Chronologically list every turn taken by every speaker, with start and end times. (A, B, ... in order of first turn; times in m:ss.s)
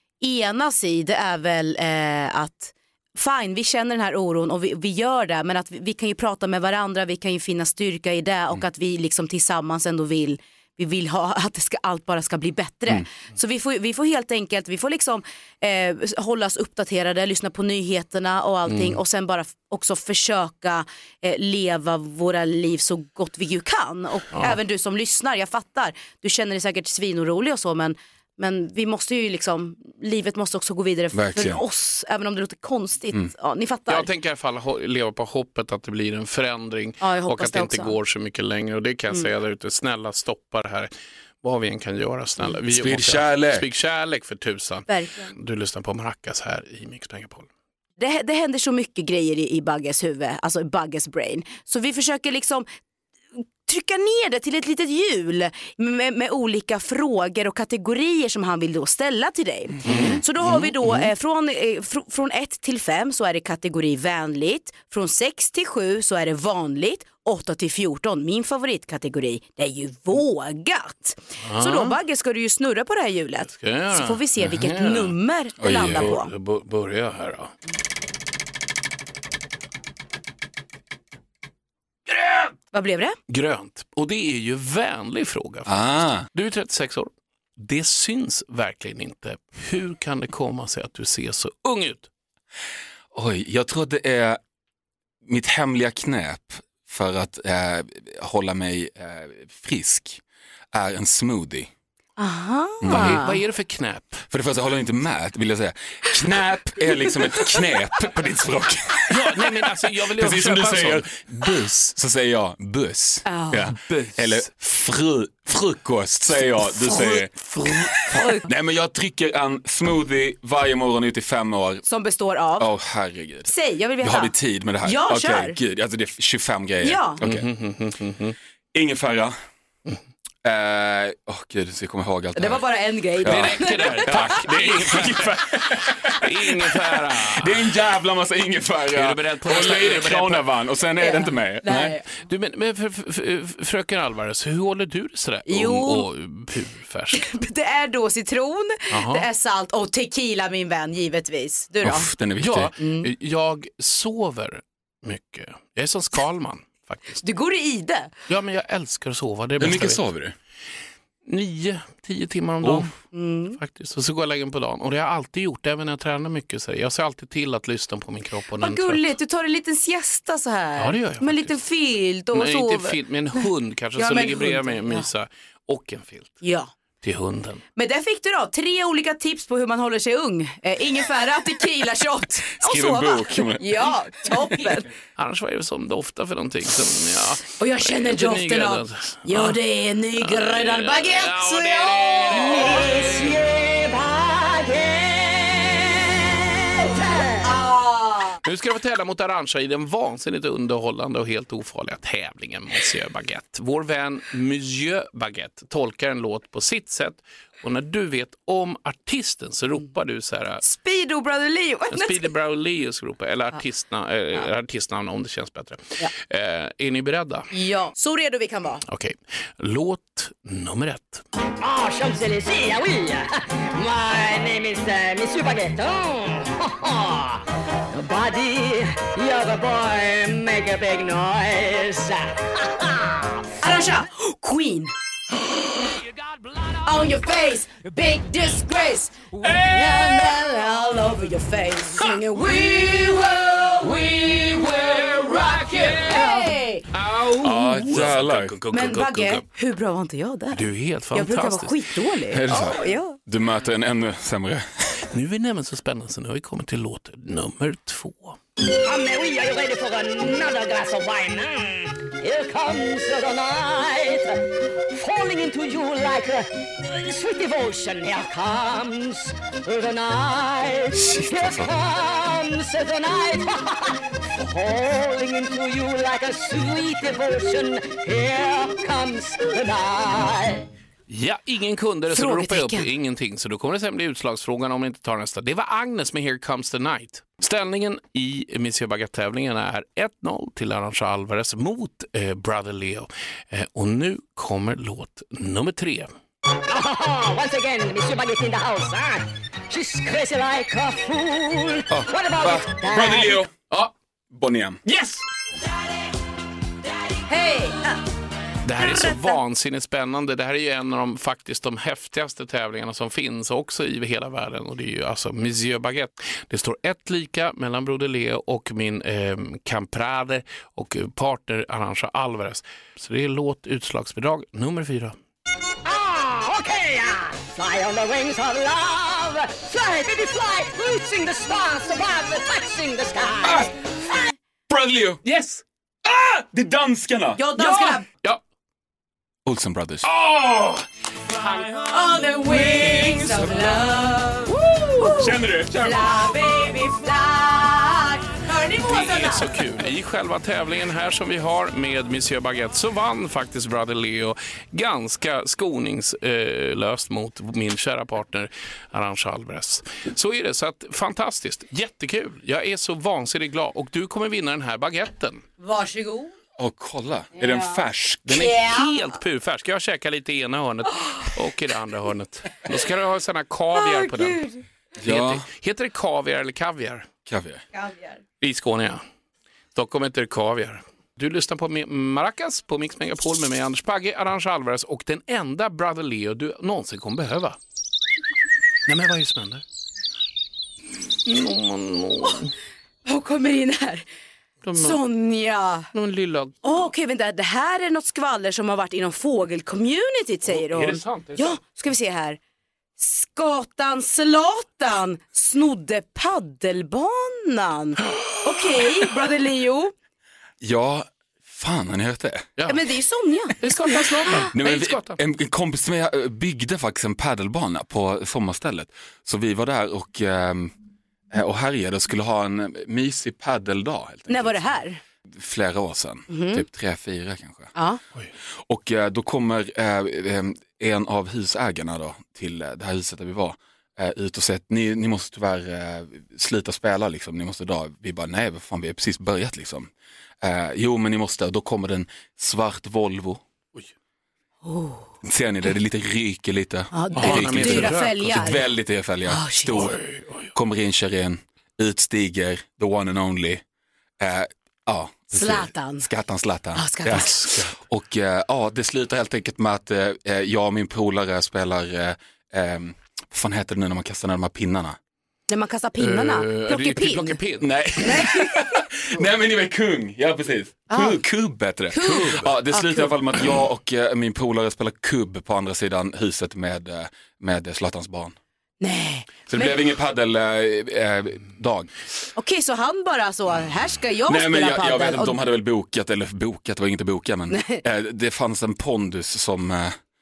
0:00.2-0:34.1 A
0:18.7-0:19.0 B
0:31.1-0:31.6 C
0:33.9-0:40.9 B
0:37.0-0:37.9 A
0:41.4-0:47.5 B
0:42.7-0:43.6 C
0:44.9-0:45.3 A
0:48.0-0:52.6 A
0:53.4-1:16.3 A
0:59.9-1:00.1 C
0:59.9-1:00.2 B
1:11.4-1:12.0 B
1:13.5-1:17.5 B
1:15.6-1:16.1 C
1:22.7-1:23.2 A
1:23.3-1:32.1 B
1:25.7-1:26.3 C
1:33.1-1:34.4 C
1:35.2-1:41.7 C
1:42.2-1:43.4 A
1:42.8-1:43.3 C
1:42.9-1:44.2 B
1:44.3-1:49.5 C
1:49.1-1:51.9 B
1:50.1-2:01.8 C
1:53.2-1:53.6 A
1:53.8-1:54.4 B
1:56.9-1:57.2 A
1:57.5-1:57.9 B
1:58.1-1:58.4 A
2:01.8-2:02.7 A
2:02.6-2:07.5 C
2:03.4-2:05.6 A
2:06.8-2:07.2 A
2:07.2-2:08.4 B
2:08.7-2:09.3 C
2:10.4-2:12.6 C
2:12.3-2:14.3 A
2:13.2-2:22.0 C
2:13.2-2:17.8 B
2:18.9-2:20.5 B
2:21.0-2:22.0 A
2:22.2-2:27.3 B
2:25.5-2:26.0 A
2:27.1-2:32.1 A
2:28.9-2:29.2 B
2:31.8-2:32.7 C
2:32.4-2:37.2 B
2:32.8-2:33.1 A
2:37.2-2:38.1 A
2:38.3-2:40.1 B
2:39.6-2:40.4 C
2:41.3-2:43.0 B
2:42.6-2:42.9 C
2:43.1-2:43.6 A
2:43.6-2:49.1 B
2:48.6-2:53.4 A
2:50.8-2:51.6 B
2:52.3-2:56.4 B
2:54.0-2:55.0 A
2:56.4-2:56.7 A
2:57.0-2:57.6 B
2:57.8-3:04.9 A
3:02.6-3:04.5 C
3:05.2-3:09.6 B
3:07.6-3:12.9 A
3:10.2-3:13.3 B
3:12.5-3:16.1 D
3:16.8-3:17.5 D
3:17.4-3:18.4 A
3:18.4-3:30.6 B
3:30.6-3:32.3 A
3:31.9-3:37.5 B
3:37.5-3:38.8 A
3:38.9-3:41.2 B
3:41.6-3:53.3 D
3:53.6-3:54.9 A
3:56.8-4:06.8 A
3:59.5-4:00.1 B
4:04.9-4:09.4 B
4:07.4-4:08.5 C
4:08.7-4:13.2 A
4:10.5-4:11.8 B
4:12.3-4:15.0 C
4:15.1-4:18.4 B
4:18.7-4:24.4 D
4:24.9-4:40.6 D
4:30.9-4:31.7 C
4:41.1-4:56.1 B
4:42.1-4:42.9 A
4:56.7-5:03.4 D
5:01.9-5:04.8 C
5:04.9-5:05.2 B
5:07.3-5:08.0 A
5:08.6-5:25.1 B
5:08.8-5:09.4 A
5:25.8-5:33.7 D
5:33.4-5:33.7 C
5:34.7-5:35.2 C
5:35.2-5:35.6 B
5:36.0-5:38.0 C
5:37.4-5:38.0 A
5:39.4-5:40.1 C
5:40.0-5:40.8 B
5:41.9-5:49.5 A
5:42.4-5:43.4 B
5:45.1-5:46.1 C
5:48.8-6:05.4 B
6:05.6-6:06.3 A
6:06.6-6:08.7 C
6:07.4-6:07.8 A
6:08.3-6:14.4 B
6:08.3-6:09.0 A
6:13.7-6:14.6 A
6:15.0-6:15.4 C
6:15.0-6:17.1 B
6:17.2-6:17.6 C
6:17.7-6:18.1 A
6:18.4-6:19.0 B
6:19.7-6:27.6 B
6:28.8-6:29.6 B
6:31.2-6:32.5 B
6:33.0-6:34.0 A
6:34.6-6:35.0 B
6:34.8-6:35.9 A
6:35.9-6:36.9 B
6:36.6-6:42.4 A
6:40.4-6:41.6 B
6:43.0-6:49.9 A
6:50.6-6:52.5 C
6:52.6-6:52.8 B
6:52.7-6:53.7 A
6:53.6-6:55.2 B
6:54.5-7:00.7 C
7:01.3-7:04.6 C
7:04.3-7:05.0 A
7:05.3-7:07.7 C
7:06.3-7:06.6 A
7:07.7-7:08.0 A
7:08.7-7:19.9 C
7:20.4-7:23.4 C
7:24.6-7:25.1 A
7:25.2-7:33.6 C
7:26.9-7:28.6 A
7:27.1-7:28.6 B
7:29.3-7:29.9 A
7:29.7-7:30.5 B
7:34.2-7:45.0 C
7:35.3-7:36.1 A
7:36.7-7:37.4 A
7:37.1-7:37.7 B
7:45.5-7:47.4 A
7:46.0-7:47.7 B
7:47.6-7:58.3 C
7:50.9-7:51.2 A
7:51.9-7:53.1 A
7:52.0-7:52.5 B
7:58.8-7:59.8 A
7:59.5-8:01.9 C
8:02.4-8:05.4 A
8:04.2-8:10.0 C
8:07.5-8:07.8 A